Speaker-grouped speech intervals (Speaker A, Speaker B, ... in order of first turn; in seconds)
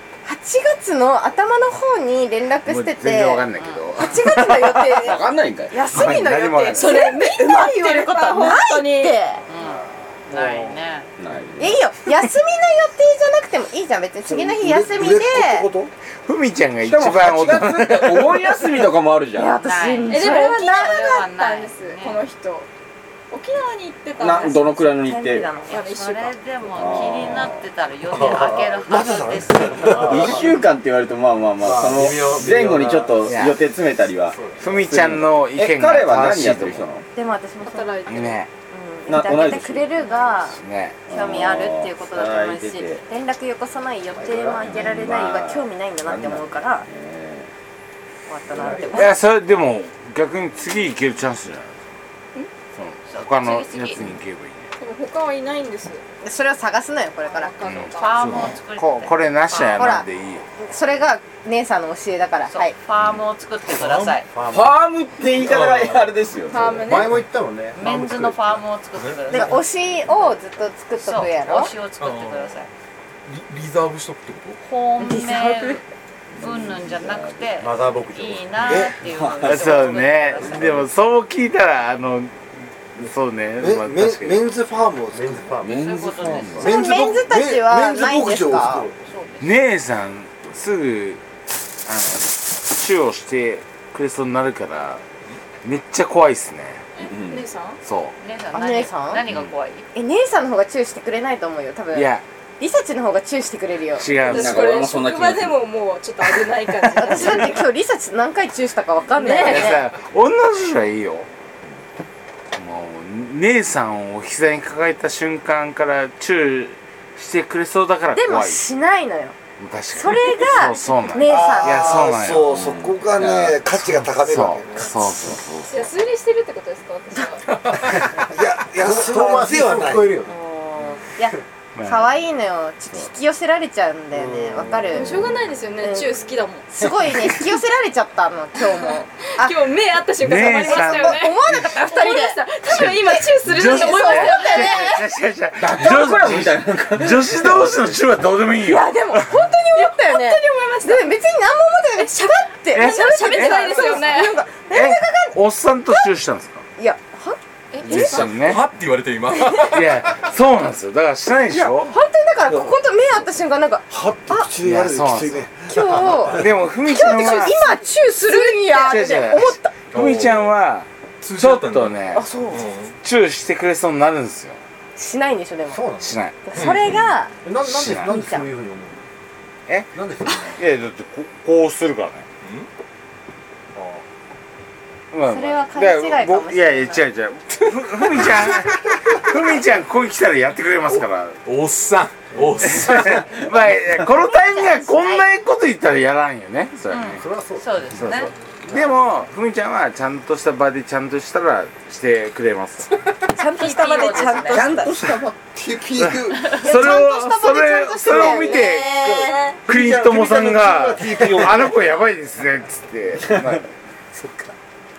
Speaker A: 0.2-9.4, 11.6-15.7, 19.4-21.2, 25.0-25.9, 37.1-38.0, 38.7-46.9, 48.3-49.1, 56.2-57.5, 59.6-60.1, 60.6-62.8, 69.3-71.7, 75.0-75.8, 86.6-88.9, 98.5-99.2, 99.9-104.1, 106.9-109.8, 118.1-119.3, 119.9-122.1, 130.2-135.1, 135.8-136.1, 136.7-139.6, 140.6-145.0, 148.6-156.1, 156.8-158.2, 161.6-164.5, 165.7-169.7, 172.1-172.7, 174.9-175.8, 176.4-177.4, 178.1-178.4, 185.3-187.0, 194.2-195.2, 203.3-205.0, 206.6-209.6
Speaker B: 2.6-5.1, 5.9-7.0, 16.2-18.5, 33.3-33.6, 34.6-36.9, 38.1-38.5, 40.5-41.0, 48.9-51.8, 52.7-54.7, 57.6-60.5, 79.4-82.4, 82.9-84.4, 89.4-91.2, 91.8-95.0, 95.6-96.8, 97.8-98.1, 101.9-102.2, 104.0-104.8, 109.4-111.3, 112.5-118.6, 119.6-122.7, 124.1-125.9, 131.7-132.1, 140.2-141.7, 142.7-149.4, 152.7-153.9, 154.6-156.6, 157.8-158.7, 159.5-162.0, 164.6-165.5, 166.2-167.8, 168.4-172.3, 173.0-174.6, 176.0-176.4, 177.6-178.1, 180.6-182.2, 185.1-191.4, 192.6-197.2, 197.9-202.9, 206.0-213.7
Speaker C: 3.5-4.2, 9.5-11.1, 19.6-22.2, 25.7-30.4, 53.0-54.0, 57.9-59.9, 62.5-64.3, 67.7-69.6, 71.0-72.7, 74.6-75.8, 76.4-80.9, 85.7-87.1, 89.0-89.7, 98.2-99.9, 196.9-198.3, 203.5-204.8
Speaker D: 5.0-6.3, 11.2-11.8, 16.8-19.6, 24.2-25.5, 26.7-27.6, 29.8-37.0, 39.1-39.9, 41.1-43.0, 44.6-47.5, 64.5-66.9, 76.4-77.5, 78.7-80.7, 85.6-86.8, 97.0-97.5, 104.2-105.6, 122.4-123.6, 145.6-147.8, 204.4-205.3
Speaker E: 6.7-9.2, 20.1-22.7, 23.3-24.8, 25.7-26.4, 37.6-38.4, 54.8-56.0, 57.2-58.5, 66.5-67.2, 97.0-97.8, 104.1-107.6, 109.1-109.8, 125.6-127.8, 134.9-136.7, 139.4-145.1, 149.7-151.1, 152.0-154.4, 157.7-158.3
Speaker F: 9.6-10.7, 28.1-28.9, 29.6-30.6, 31.6-33.3, 34.3-34.8, 44.1-44.9, 48.5-49.1, 64.3-64.7, 66.6-68.4, 77.6-78.8, 85.1-85.8, 127.8-130.4, 175.7-176.2, 177.4-179.0, 179.9-180.6, 183.7-184.0, 197.2-198.9, 214.2-214.5
Speaker G: 14.2-15.9, 28.1-30.6, 31.6-32.5, 83.6-85.5, 86.6-89.0, 121.2-124.9, 128.1-130.2, 134.2-134.9, 162.5-162.8, 163.9-166.4, 205.5-206.6, 208.9-211.8
Speaker H: 65.3-66.2, 72.0-72.6, 73.2-74.6, 158.0-160.2, 169.9-170.5, 171.2-172.9, 176.5-176.9, 182.4-182.7, 187.9-188.7, 190.9-193.3